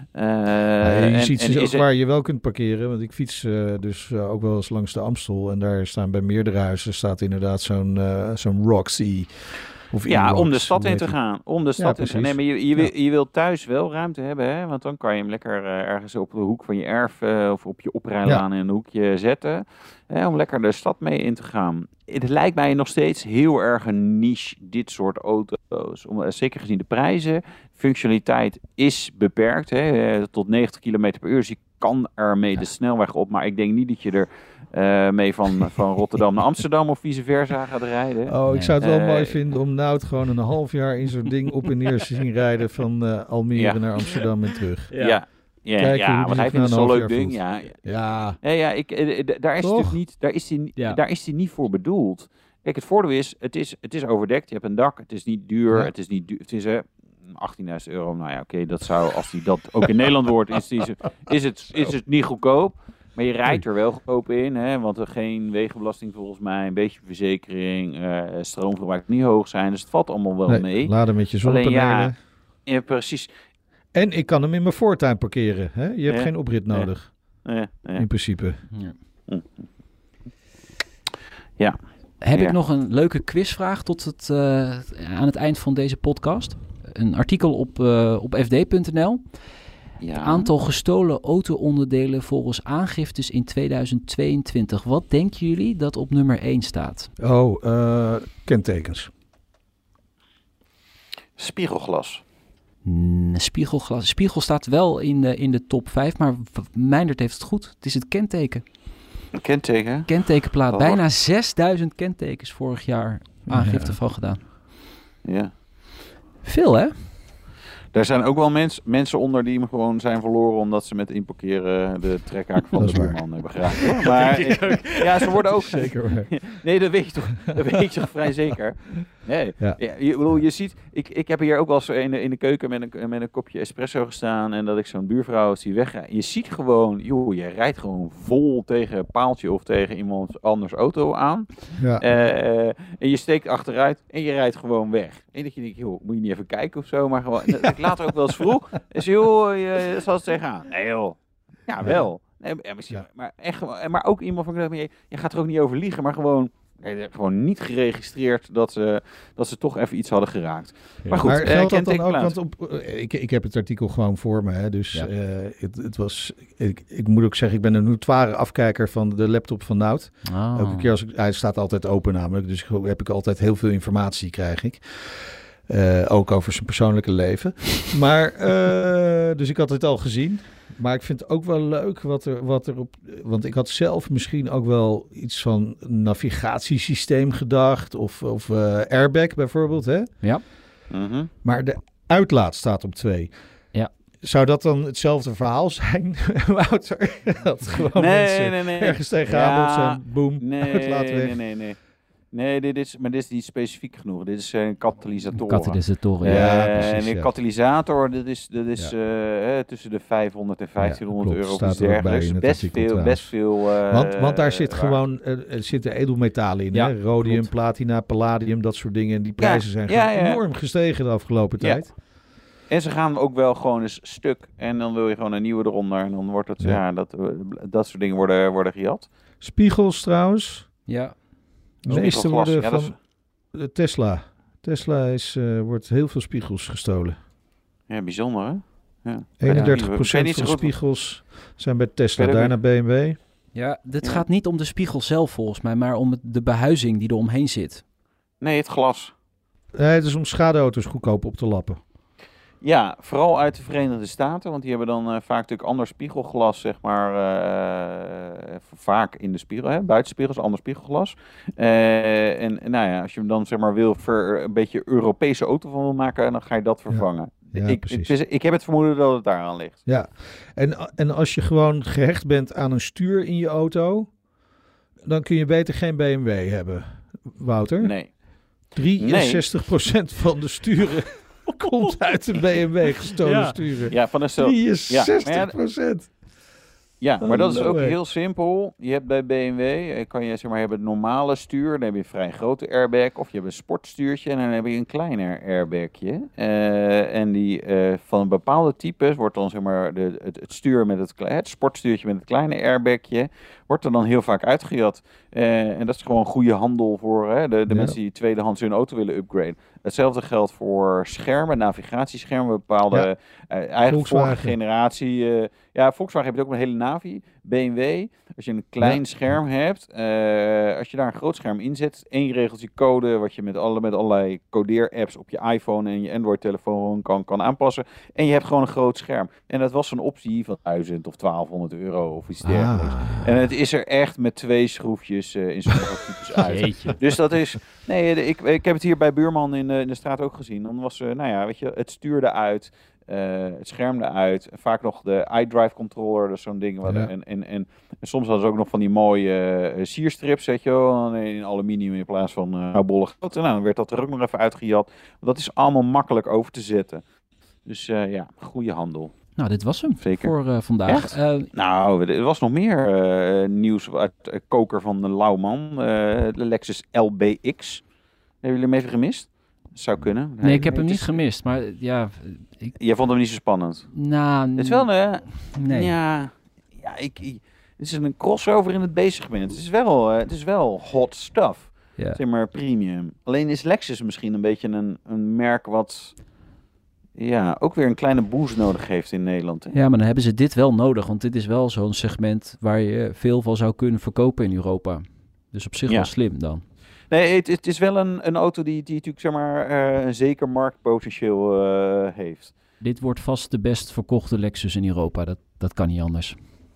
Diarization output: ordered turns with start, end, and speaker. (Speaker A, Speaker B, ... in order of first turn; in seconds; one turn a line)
Speaker A: 0.1-1.8
Speaker B: 0.8-11.2
Speaker A: 10.1-39.5
Speaker B: 11.8-12.9
Speaker B: 38.3-45.1
Speaker C: 38.5-38.8
Speaker A: 43.5-43.9
Speaker C: 44.9-45.2
Speaker A: 45.0-73.3
Speaker B: 45.8-48.4
Speaker B: 49.6-50.0
Speaker B: 70.5-72.2
Speaker B: 73.9-77.4
Speaker A: 76.1-78.1
Speaker B: 78.0-78.7
Speaker C: 78.7-79.0
Speaker A: 79.3-79.7
Speaker C: 82.2-97.1
Speaker A: 90.0-90.5
Speaker B: 97.2-99.1
Speaker A: 101.4-102.2
Speaker C: 102.8-108.7
Speaker A: 109.3-111.0
Speaker C: 110.1-114.4
Speaker B: 113.5-114.0
Speaker A: 115.2-115.5
Speaker C: 116.4-117.1
Speaker A: 117.9-162.3
Speaker B: 122.8-123.4
Speaker C: 123.9-125.2
Speaker B: 125.6-126.5
Speaker B: 129.6-130.4
Speaker B: 141.8-142.1
Speaker C: 161.1-161.4
Speaker B: 161.2-190.2
Speaker C: 170.2-170.9
Speaker A: 190.9-191.3
Speaker B: 191.4-193.3
Speaker B: 194.2-201.4
Speaker A: 198.0-201.8
Speaker A: 202.3-215.0
Speaker C: 205.4-206.8
Speaker B: 206.2-207.3
Speaker B: 210.8-221.9
Speaker C: 216.7-217.5
Speaker A: 219.4-220.4
Speaker A: 221.6-222.0
Speaker A: 222.7-229.1
Speaker B: 229.4-230.7
Speaker C: 230.9-231.2
Speaker C: 231.8-232.1
Speaker A: 231.8-232.9
Speaker B: 231.9-233.0
Speaker B: 233.5-237.2
Speaker A: 237.9-240.7
Speaker B: 239.4-243.2
Speaker C: 239.5-239.8
Speaker A: 242.2-242.5
Speaker C: 243.5-247.8
Speaker A: 248.4-249.1
Speaker B: 249.8-251.8
Speaker A: 252.6-269.8
Speaker B: 266.9-268.1
Speaker B: 269.9-274.2
Speaker B: 275.0-278.0
Speaker A: 277.8-278.1
Speaker A: 278.7-279.6
Speaker B: 278.7-286.2
Speaker C: 283.2-283.7
Speaker A: 283.9-285.6
Speaker A: 287.0-357.0
Speaker B: 287.2-288.0
Speaker B: 307.7-308.0
Speaker B: 313.9-314.6
Speaker B: 332.4-333.3
Speaker C: 336.4-337.0
Speaker B: 346.9-347.1
Speaker A: 357.7-359.2
Speaker C: 359.4-361.5
Speaker A: 360.0-367.9
Speaker A: 368.4-371.2
Speaker C: 370.4-372.8
Speaker A: 372.8-386.3
Speaker C: 373.9-375.9
Speaker A: 387.2-389.8
Speaker C: 389.7-396.6
Speaker A: 395.9-396.3
Speaker A: 397.1-402.5
Speaker C: 402.8-406.4